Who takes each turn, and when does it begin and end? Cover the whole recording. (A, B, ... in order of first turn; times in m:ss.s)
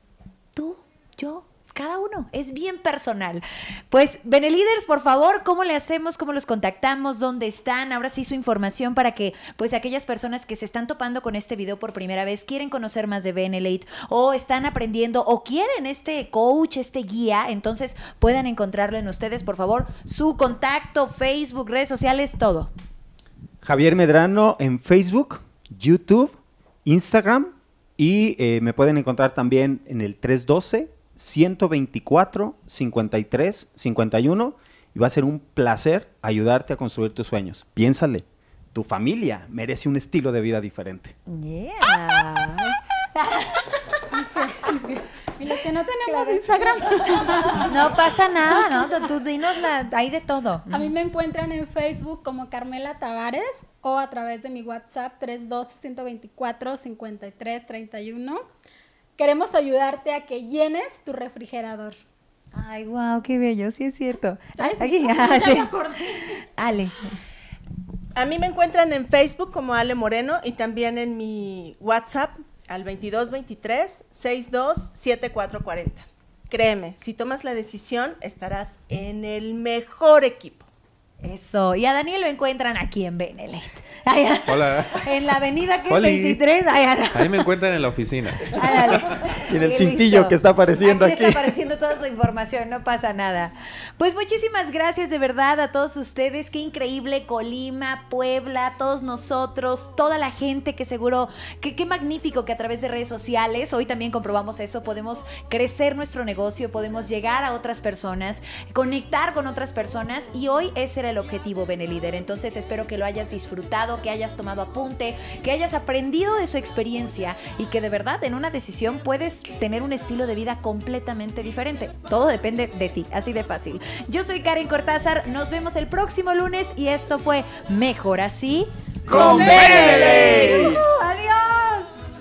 0:00.6-0:22.7 A
0:23.6-0:41.1 B
0:41.3-0:44.4 A
0:44.1-0:47.7 C
0:46.0-0:50.9 A
0:50.7-0:58.4 C
0:59.2-1:02.0 C
1:02.5-1:07.2 A
1:04.6-1:06.4 C
1:08.2-1:20.7 D
1:21.2-1:27.5 A
1:24.4-1:25.1 E
1:25.9-1:26.4 E
1:27.1-1:29.3 E
1:28.4-2:12.0 A
1:29.5-1:31.6 B
2:09.1-2:10.8 B
2:09.3-2:10.3 C